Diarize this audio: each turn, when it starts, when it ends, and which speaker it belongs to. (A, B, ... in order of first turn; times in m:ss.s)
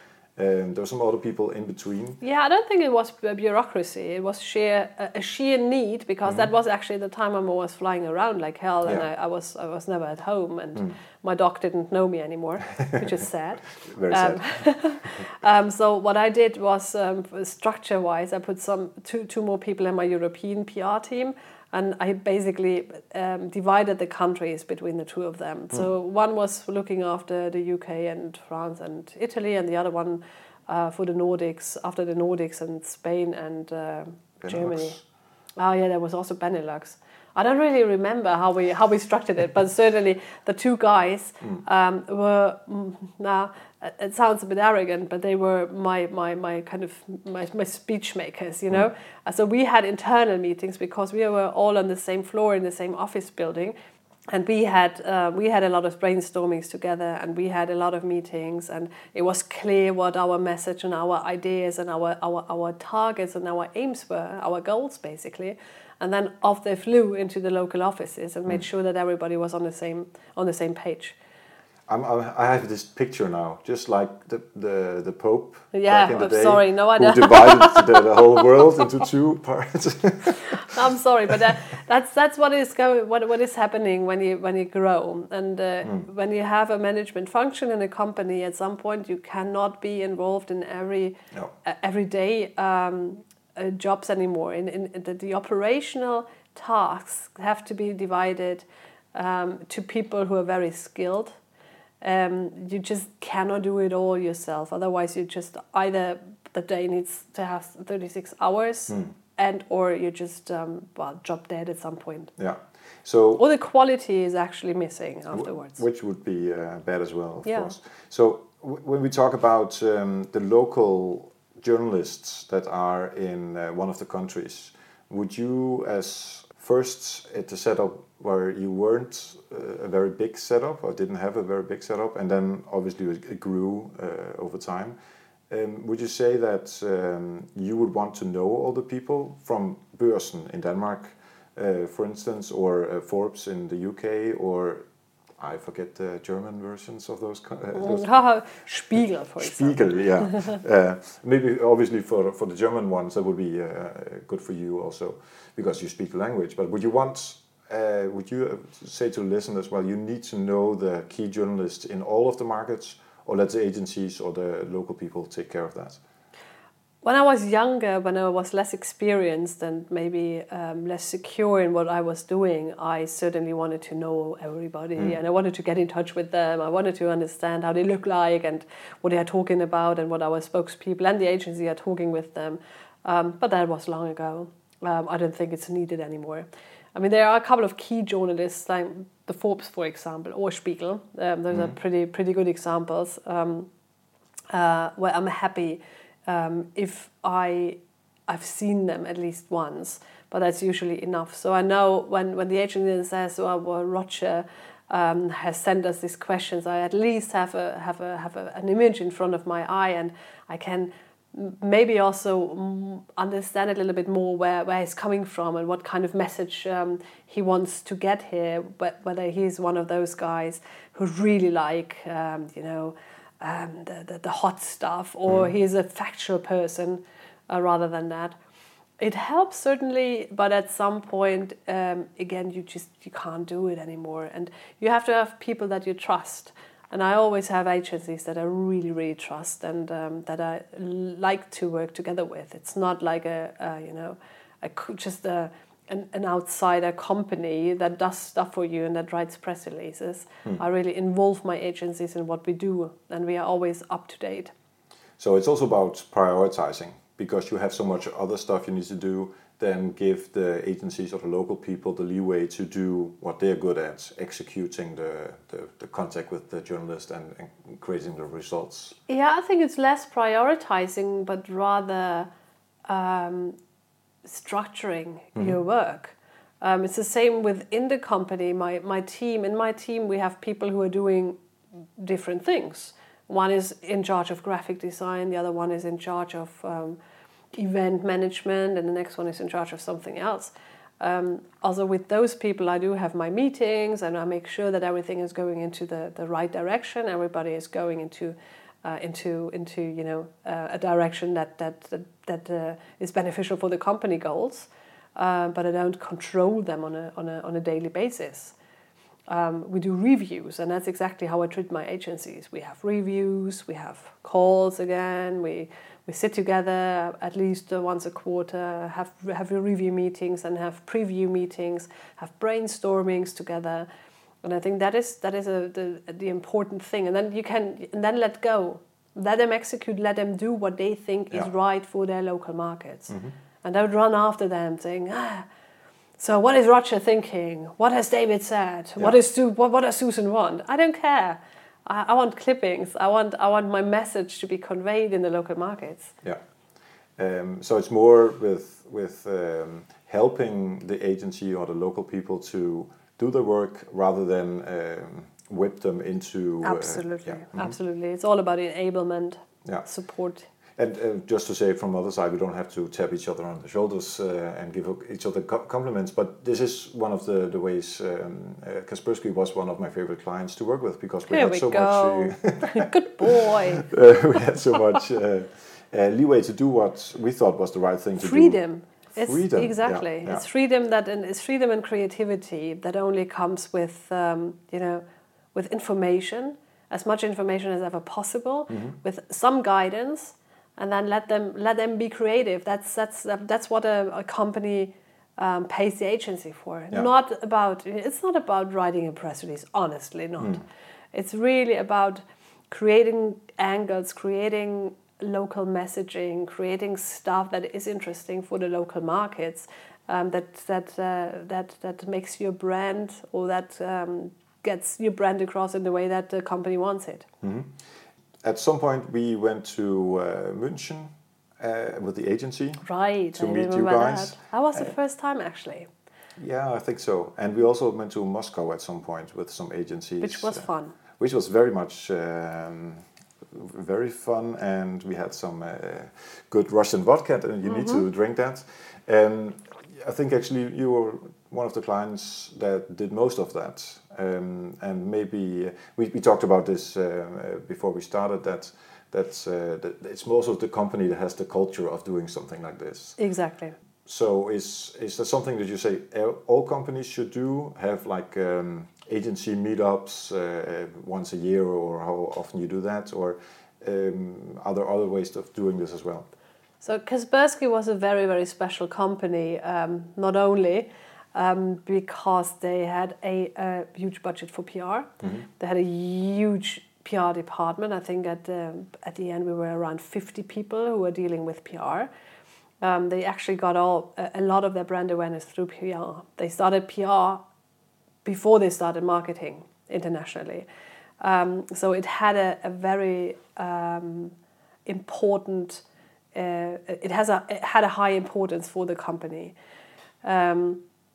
0:00.4-0:02.2 A
0:02.2-0:35.0 B
0:06.2-0:06.5 A
0:13.8-0:14.6 A
0:34.4-0:35.0 A
0:35.6-0:53.8 B
0:54.3-1:11.2 B
1:11.9-1:20.7 A
1:15.7-1:18.4 B
1:20.5-1:41.4 B
1:42.0-1:52.3 B
1:52.4-1:53.4 A
1:53.4-1:55.8 B
1:55.3-2:15.0 A
1:57.4-1:57.7 B
2:15.5-2:24.8 A
2:25.4-2:28.1 A
2:27.8-2:30.6 B
2:29.4-2:46.0 A
2:47.0-3:13.7 B
3:14.5-3:48.4 B
3:49.0-4:14.5 B
4:15.2-4:29.0 A
4:29.1-4:32.3 B
4:32.9-4:33.6 B
4:34.2-4:41.4 B
4:42.0-4:47.0 B
4:47.5-5:08.6 B
5:09.3-5:23.9 B
5:24.4-5:35.5 B
5:36.2-5:46.2 B
5:47.2-5:57.8 A
5:56.6-6:00.5 B
6:00.8-6:18.6 A
6:11.3-6:13.9 B
6:18.2-6:25.0 B
6:19.2-6:20.4 A
6:25.5-6:57.3 B
6:28.7-6:29.0 A
6:57.4-6:57.8 A
6:58.4-7:02.8 A
7:02.8-7:05.9 B
7:03.4-7:04.9 A
7:06.4-7:10.7 A
7:10.2-7:11.0 B
7:11.2-7:33.2 A
7:17.6-7:18.0 B
7:33.2-7:33.7 B
7:34.1-7:46.3 A
7:46.8-8:02.1 B
8:02.8-8:07.4 B
8:08.2-8:10.6 B
8:11.2-8:14.3 B
8:14.9-8:15.8 B
8:16.3-8:19.5 B
8:20.2-8:20.8 B